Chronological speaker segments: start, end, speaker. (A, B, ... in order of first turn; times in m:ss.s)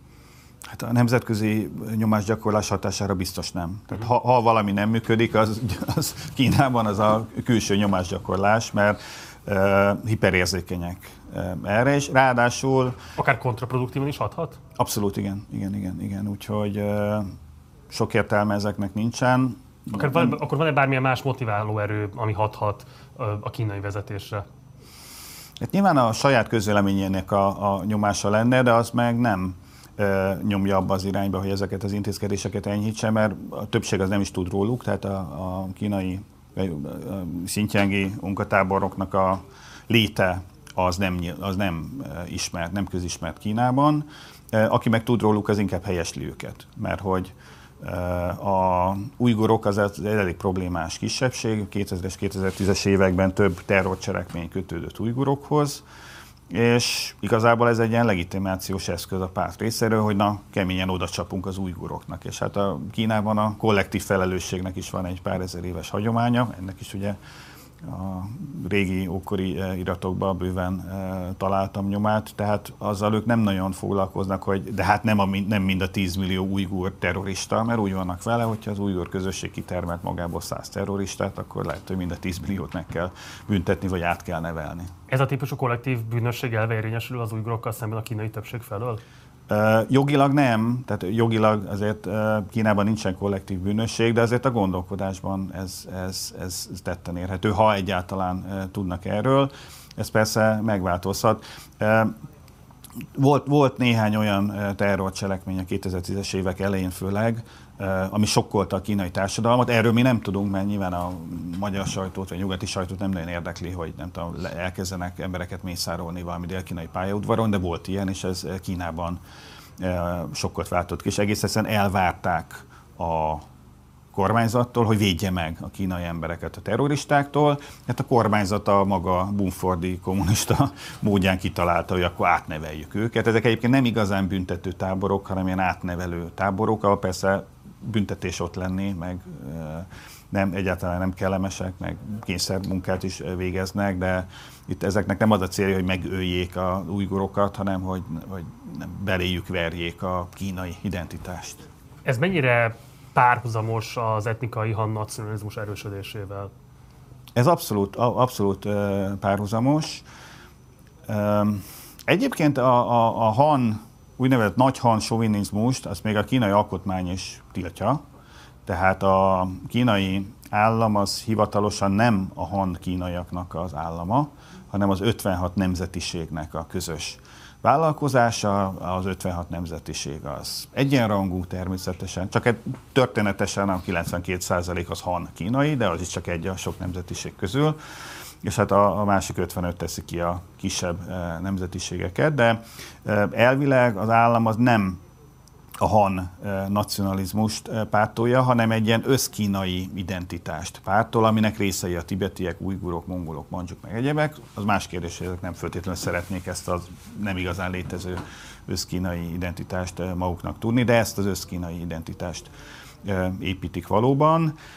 0:00.7-0:13.0 A
0:13.2-0:14.6 B
0:14.8-0:17.3 A
0:17.9-0:20.3 A
0:19.9-0:24.4 B
0:25.6-0:55.8 A
0:56.5-1:07.2 A
1:07.8-1:24.9 A
1:25.1-1:29.0 B
1:29.5-1:42.1 A
1:43.1-1:59.2 A
1:59.8-2:03.4 A
2:04.1-2:31.7 A
2:32.0-2:36.5 B
2:37.3-2:40.0 A
2:41.1-2:48.0 A
2:48.6-3:07.8 A
3:08.4-3:15.0 A
3:15.8-3:32.5 A
3:33.0-3:34.5 A